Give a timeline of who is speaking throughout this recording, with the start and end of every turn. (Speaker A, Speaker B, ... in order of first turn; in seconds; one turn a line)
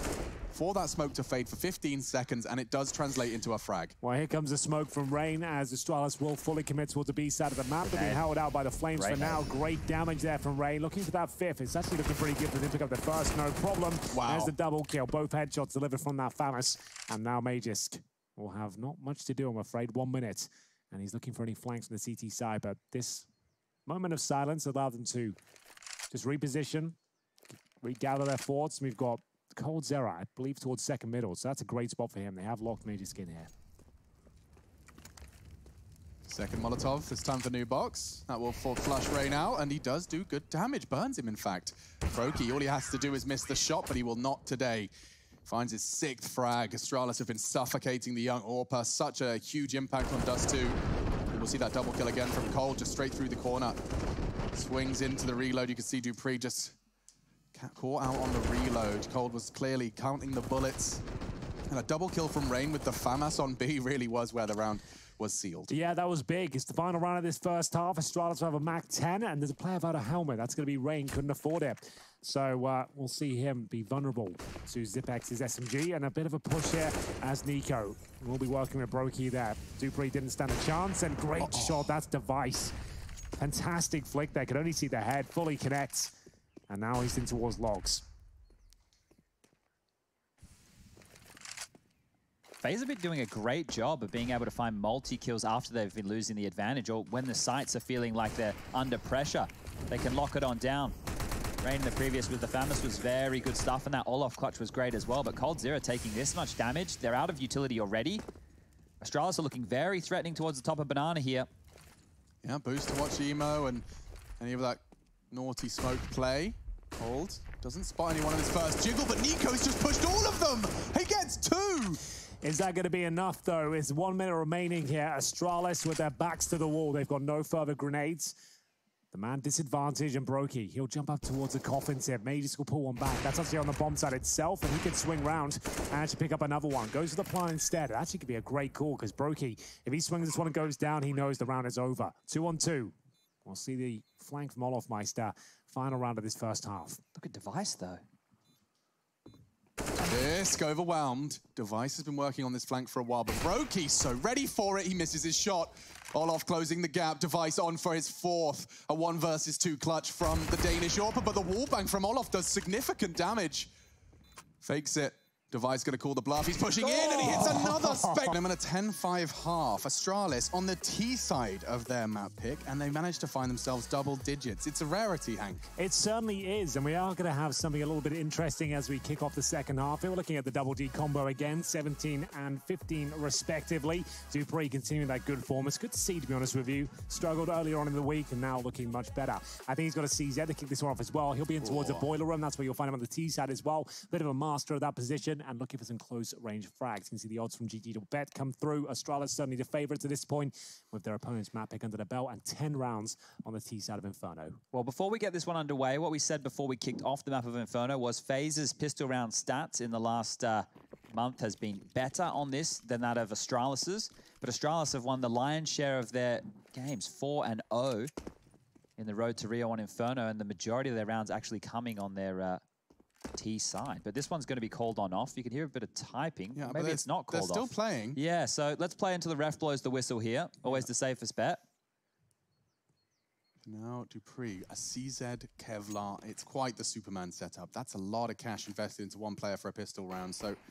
Speaker A: 0.5-4.0
Speaker B: 4.0-23.3
Speaker C: 7.8-8.2
Speaker C: 8.9-9.4
Speaker A: 14.1-14.5
Speaker B: 23.9-25.4
Speaker B: 26.1-27.0
Speaker B: 27.8-33.5
Speaker A: 36.2-44.9
Speaker A: 45.5-50.8
Speaker A: 51.3-53.8
Speaker A: 54.5-56.8
Speaker A: 57.5-61.0
Speaker A: 61.7-65.7
Speaker B: 65.7-82.7
Speaker A: 81.3-81.9
Speaker B: 83.4-86.1
Speaker B: 86.7-88.1
Speaker C: 92.6-100.9
Speaker C: 101.6-108.2
Speaker C: 109.0-111.5
Speaker A: 112.4-113.8
Speaker A: 114.4-122.0
Speaker B: 122.4-128.3
Speaker B: 129.1-147.0
Speaker C: 147.2-148.0
Speaker A: 150.0-163.7
Speaker A: 164.6-175.6
Speaker C: 166.8-167.6
Speaker B: 167.1-168.3
Speaker B: 175.8-204.6
Speaker A: 191.6-192.1
Speaker C: 204.7-218.1
Speaker C: 219.0-222.6
Speaker C: 223.3-231.6
Speaker A: 226.5-228.2
Speaker A: 233.6-240.6